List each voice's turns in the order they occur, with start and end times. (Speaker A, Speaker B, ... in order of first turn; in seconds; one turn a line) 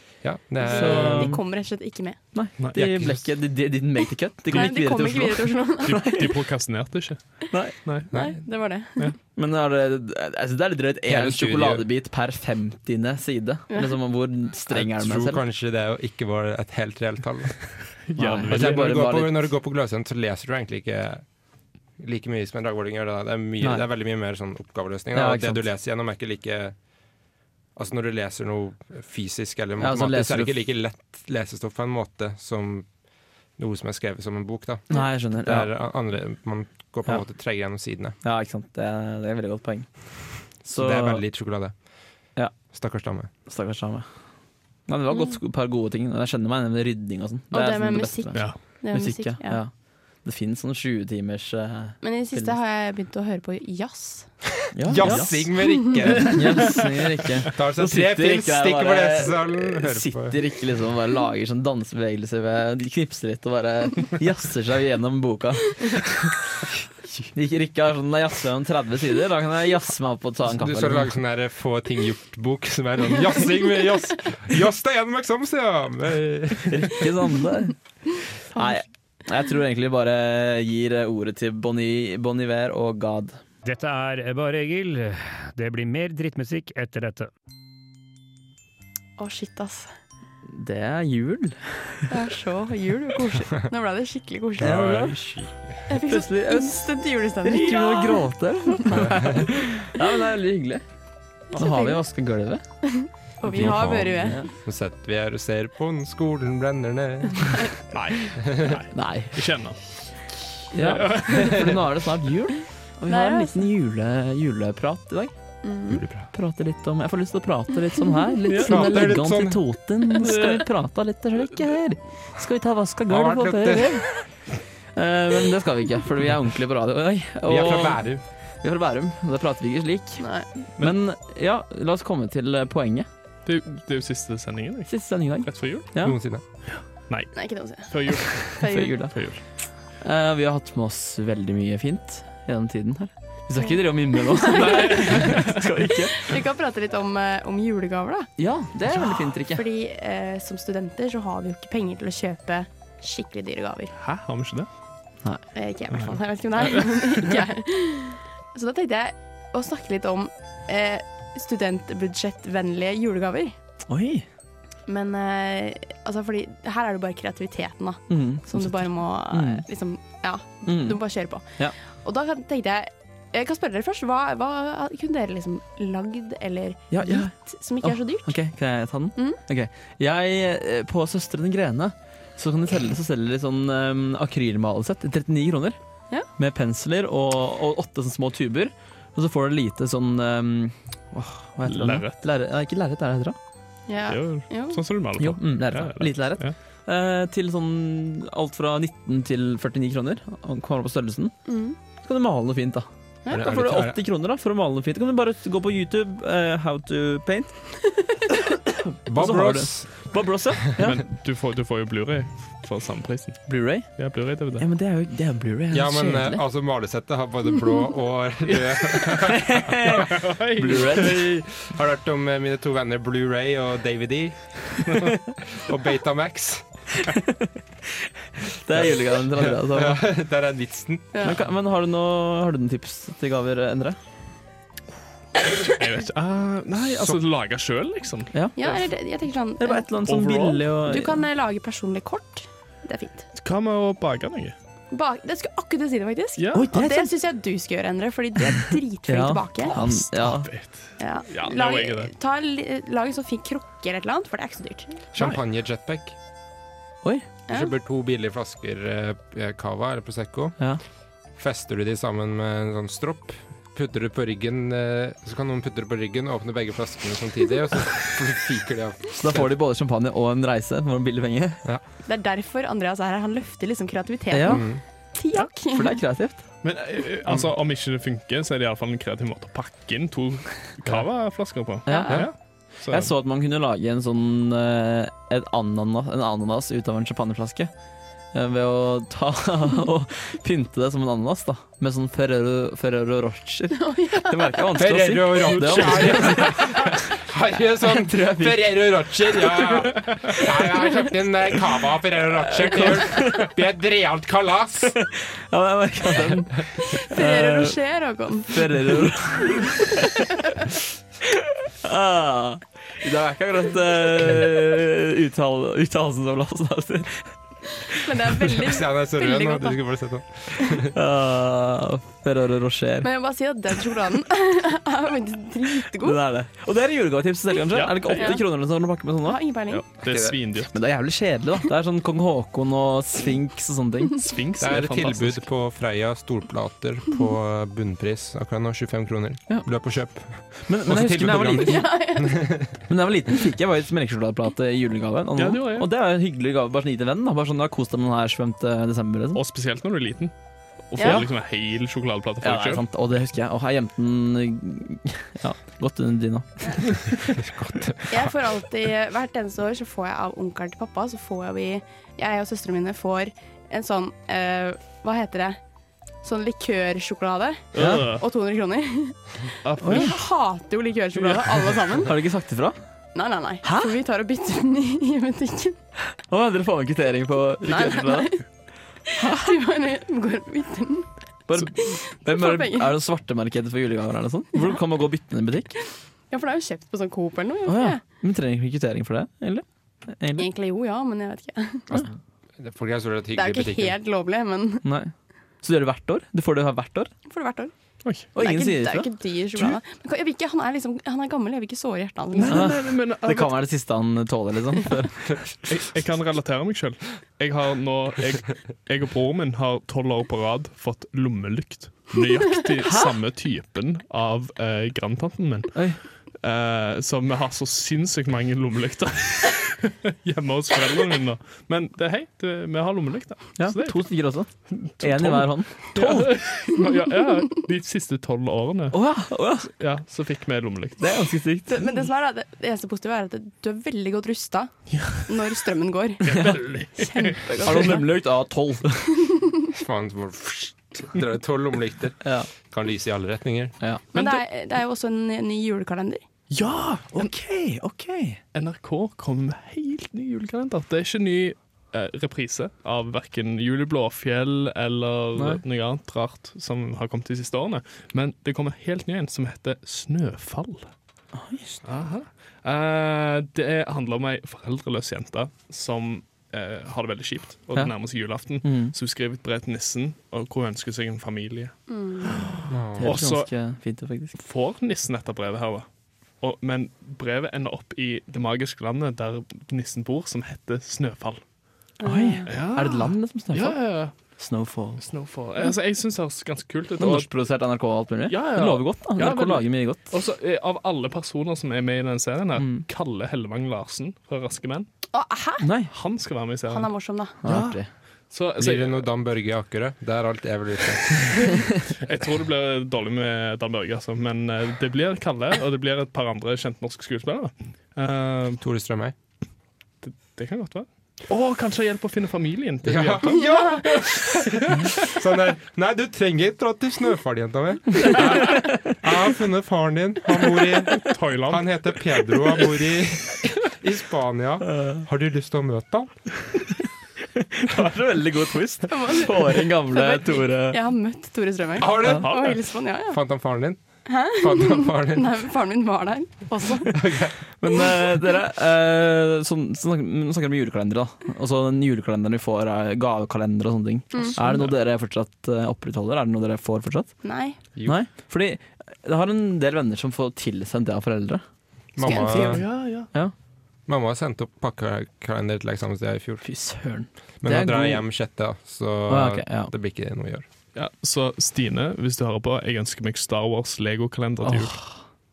Speaker A: 0.2-1.3
Speaker B: 0.6-2.2
Speaker C: 0.6-1.4
Speaker C: 2.3-6.2
Speaker A: 2.8-3.2
Speaker B: 4.5-6.2
Speaker D: 5.8-8.1
Speaker A: 8.1-8.4
Speaker B: 8.1-9.1
Speaker C: 9.3-15.4
Speaker A: 11.1-11.9
Speaker A: 14.7-17.8
Speaker D: 18.1-18.9
Speaker C: 18.1-19.4
Speaker A: 18.5-21.2
Speaker A: 22.0-26.8
Speaker C: 23.6-23.9
Speaker C: 25.1-25.6
Speaker A: 27.8-32.9
Speaker C: 29.8-30.5
Speaker A: 33.6-38.1
Speaker C: 34.9-35.7
Speaker C: 38.2-41.2
Speaker A: 40.7-41.8
Speaker A: 42.7-43.3
Speaker C: 43.5-44.1
Speaker C: 44.9-52.5
Speaker B: 47.5-49.6
Speaker B: 52.0-54.4
Speaker C: 54.7-55.5
Speaker A: 54.8-56.8
Speaker D: 55.0-55.3
Speaker B: 55.7-56.0
Speaker C: 56.3-66.3
Speaker A: 57.5-60.4
Speaker C: 67.3-71.1
Speaker A: 70.4-77.1
Speaker C: 76.7-77.8
Speaker C: 78.5-83.4
Speaker E: 83.6-87.3
Speaker B: 89.2-89.9
Speaker C: 90.5-92.1
Speaker B: 92.1-94.8
Speaker A: 94.6-95.8
Speaker C: 94.6-95.3
Speaker B: 95.9-99.1
Speaker C: 96.0-96.9
Speaker C: 97.4-100.8
Speaker A: 98.9-99.5
Speaker B: 101.5-102.0
Speaker C: 101.5-102.6
Speaker B: 102.8-104.4
Speaker A: 103.5-107.7
Speaker D: 107.9-110.0
Speaker A: 108.4-108.8
Speaker C: 108.9-109.4
Speaker C: 110.7-115.3
Speaker D: 110.8-111.8
Speaker B: 113.1-113.6
Speaker B: 115.6-116.0
Speaker A: 115.9-116.3
Speaker C: 116.3-124.1
Speaker D: 118.5-118.8
Speaker A: 118.6-119.6
Speaker D: 120.2-120.6
Speaker A: 123.1-124.1
Speaker C: 124.9-128.0
Speaker A: 127.4-128.2
Speaker C: 128.6-133.1
Speaker B: 130.2-130.5
Speaker D: 133.4-135.9
Speaker C: 134.9-136.2
Speaker A: 136.0-136.4
Speaker D: 136.7-139.4
Speaker B: 137.3-138.9
Speaker C: 138.7-146.2
Speaker B: 143.6-148.3
Speaker D: 144.6-145.4
Speaker C: 148.4-149.6
Speaker D: 149.0-149.3
Speaker B: 149.5-153.9
Speaker D: 154.0-154.7
Speaker B: 155.5-163.6
Speaker D: 155.9-156.8
Speaker C: 163.9-164.2
Speaker B: 164.8-178.3
Speaker C: 168.1-169.6
Speaker C: 170.7-171.7
Speaker C: 176.9-185.8
Speaker B: 179.1-179.4
Speaker C: 186.3-193.3
Speaker D: 191.6-192.2
Speaker B: 193.9-194.8
Speaker D: 194.1-196.5
Speaker C: 195.2-201.3
Speaker B: 201.4-201.8
Speaker C: 202.0-207.6
Speaker A: 203.3-204.0
Speaker A: 209.1-210.1
Speaker C: 209.1-211.0
Speaker D: 210.8-214.7
Speaker C: 213.5-216.4
Speaker A: 215.7-220.1
Speaker D: 218.5-219.0
Speaker C: 219.2-221.4
Speaker D: 219.9-221.1
Speaker A: 220.7-226.8
Speaker C: 228.6-230.0
Speaker A: 228.7-231.2
Speaker C: 231.2-234.0
Speaker D: 235.6-238.8
Speaker A: 236.9-237.2
Speaker C: 238.3-238.6
Speaker B: 238.6-239.9
Speaker C: 239.6-241.2
Speaker D: 240.1-240.6
Speaker B: 240.8-243.2
Speaker D: 243.3-244.5
Speaker B: 244.9-249.9
Speaker D: 246.4-246.7
Speaker C: 246.5-247.1
Speaker C: 249.1-250.5
Speaker D: 249.7-252.1
Speaker B: 251.0-255.1
Speaker A: 255.1-256.1
Speaker A: 257.5-260.6
Speaker A: 261.4-269.5
Speaker C: 269.2-271.6
Speaker B: 272.0-276.0
Speaker C: 274.3-274.6
Speaker A: 274.5-274.8
Speaker C: 275.4-276.4
Speaker D: 276.6-283.1
Speaker C: 281.8-282.3
Speaker B: 281.9-282.2
Speaker C: 282.9-287.7
Speaker C: 288.3-296.8
Speaker B: 293.8-294.7
Speaker A: 294.7-304.9
Speaker C: 298.1-298.6
Speaker C: 302.6-303.4
Speaker C: 304.9-307.8
Speaker B: 306.9-309.0
Speaker C: 308.5-310.1
Speaker C: 311.8-317.3
Speaker B: 318.0-319.8
Speaker A: 318.4-320.9
Speaker C: 320.9-323.1
Speaker B: 323.0-326.2
Speaker C: 326.0-329.4
Speaker D: 327.7-328.4
Speaker B: 328.1-328.4
Speaker B: 329.2-329.8
Speaker D: 329.7-330.7
Speaker A: 330.1-330.4
Speaker C: 330.7-334.2
Speaker D: 334.2-335.4
Speaker A: 334.6-342.7
Speaker C: 340.6-341.9
Speaker B: 341.6-342.6
Speaker C: 342.9-349.4
Speaker D: 345.4-345.9
Speaker D: 349.3-350.3
Speaker D: 350.9-352.8
Speaker B: 351.0-351.2
Speaker C: 352.4-357.0
Speaker A: 357.3-358.6
Speaker B: 358.1-365.6
Speaker B: 366.2-372.2
Speaker D: 367.7-368.2
Speaker C: 367.7-368.1
Speaker D: 369.6-370.2
Speaker C: 369.8-370.1
Speaker D: 371.2-371.9
Speaker C: 372.0-372.8
Speaker B: 373.1-375.8
Speaker C: 373.6-373.9
Speaker C: 376.3-378.4
Speaker B: 377.6-378.4
Speaker B: 379.2-382.9
Speaker C: 379.2-379.5
Speaker C: 381.5-385.7
Speaker B: 386.3-388.0
Speaker C: 387.6-390.5
Speaker B: 390.4-391.9
Speaker A: 391.9-394.0
Speaker B: 393.3-394.8
Speaker C: 394.8-397.1
Speaker B: 397.3-397.7
Speaker C: 398.3-399.8
Speaker B: 398.3-402.7
Speaker D: 402.3-403.6
Speaker C: 402.5-405.2
Speaker D: 405.6-431.0
Speaker C: 412.8-413.1
Speaker C: 415.7-416.0
Speaker C: 423.6-426.3
Speaker C: 428.9-429.7
Speaker C: 431.0-431.8
Speaker B: 431.7-438.1
Speaker D: 434.9-435.2
Speaker D: 436.2-437.7
Speaker C: 436.3-436.6
Speaker C: 437.6-439.1
Speaker A: 439.7-443.7
Speaker C: 442.2-442.5
Speaker B: 444.1-446.2
Speaker D: 444.1-444.4
Speaker D: 446.5-447.3
Speaker C: 447.1-448.4
Speaker D: 448.5-460.9
Speaker C: 455.3-455.6
Speaker C: 461.3-461.8
Speaker D: 461.8-473.5
Speaker C: 467.7-468.9
Speaker B: 471.9-472.3
Speaker A: 472.7-473.2
Speaker C: 473.0-474.4
Speaker D: 474.3-481.4
Speaker B: 482.0-482.5
Speaker C: 482.0-485.0
Speaker D: 482.4-484.1
Speaker D: 485.0-487.3
Speaker C: 487.0-490.1
Speaker D: 488.3-494.9
Speaker C: 492.6-492.8
Speaker B: 495.1-495.6
Speaker C: 495.6-495.9
Speaker D: 495.9-496.9
Speaker B: 496.7-497.3
Speaker C: 497.4-497.9
Speaker D: 497.4-497.8
Speaker D: 498.3-499.1
Speaker A: 498.6-501.6
Speaker D: 502.0-508.6
Speaker A: 508.6-509.1
Speaker D: 510.0-513.4
Speaker A: 512.8-526.7
Speaker D: 521.0-521.9
Speaker C: 527.4-530.8
Speaker B: 528.9-533.2
Speaker A: 531.8-532.5
Speaker D: 532.1-532.6
Speaker A: 533.0-535.3
Speaker B: 534.0-537.0
Speaker A: 536.9-537.3
Speaker C: 537.6-547.2
Speaker D: 544.4-544.7
Speaker B: 547.2-547.6
Speaker C: 547.9-551.4
Speaker A: 551.9-552.6
Speaker B: 552.0-552.6
Speaker D: 552.1-553.1
Speaker A: 553.9-556.4
Speaker C: 556.4-558.0
Speaker A: 557.4-560.5
Speaker C: 559.1-559.7
Speaker D: 560.7-564.9
Speaker C: 564.4-565.0